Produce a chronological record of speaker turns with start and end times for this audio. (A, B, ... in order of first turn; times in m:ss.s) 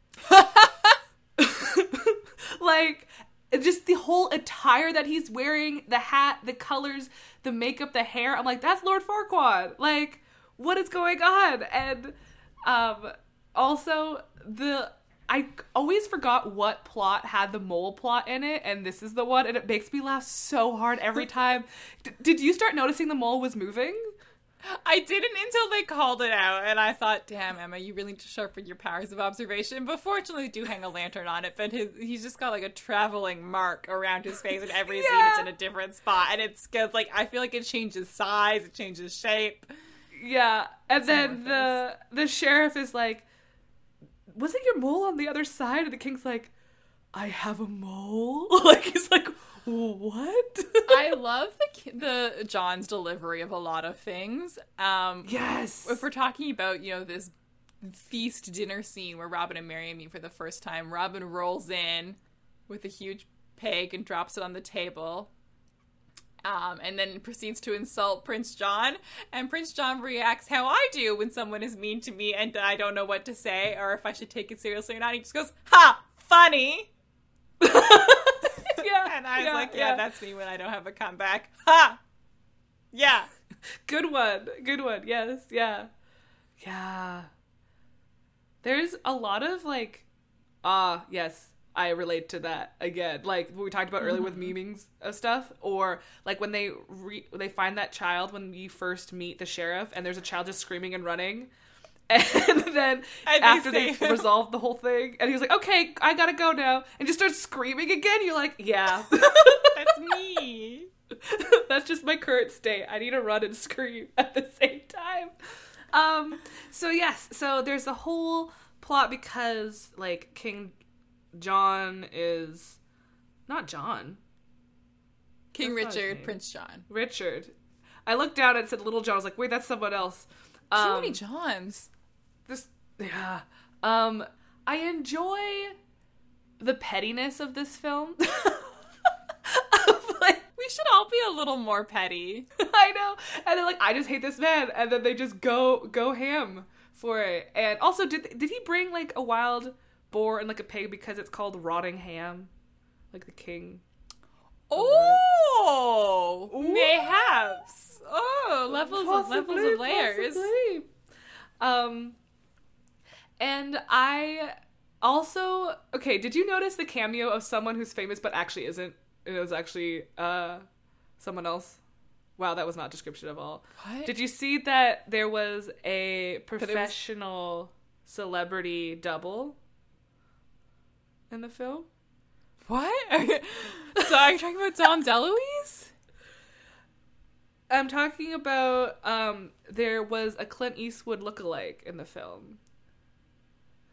0:00.2-0:24.1 A
0:24.6-0:39.7 B
0:34.8-0:35.5 A
0:40.2-0:43.2 A
0:41.1-0:41.8 B
0:44.3-0:46.5 A
0:47.1-0:51.1 A
0:50.9-1:05.3 B
0:55.2-0:56.0 A
1:06.4-1:16.9 B
1:17.6-1:20.0 A
1:18.8-1:22.0 B
1:22.9-1:23.3 B
1:23.9-1:25.9 A
1:26.6-1:27.3 A
1:28.6-1:30.0 A
1:30.6-1:41.5 A
1:34.0-1:34.5 B
1:42.1-1:50.0 A
1:43.2-1:44.3 B
1:49.4-1:50.9 B
1:51.2-1:55.3 A
1:55.9-2:00.7 A
2:01.3-2:02.8 A
2:03.5-2:04.2 A
2:05.5-2:06.8 B
2:05.6-2:06.4 A
2:06.9-2:07.5 A
2:08.0-2:11.2 A
2:10.8-2:11.9 B
2:12.5-2:15.8 A
2:16.6-2:18.7 A
2:19.4-2:20.4 A
2:20.6-2:22.5 B
2:22.6-2:32.5 A
2:33.1-2:33.8 A
2:34.7-2:40.5 B
2:34.7-2:35.2 A
2:36.5-2:37.4 A
2:38.8-2:40.9 A
2:41.6-2:42.2 A
2:43.4-2:50.6 A
2:51.2-2:51.8 A
2:52.4-2:59.6 A
2:53.8-2:54.1 B
2:56.6-2:57.0 B
3:01.3-3:01.9 A
3:02.6-3:05.9 B
3:07.7-3:12.6 A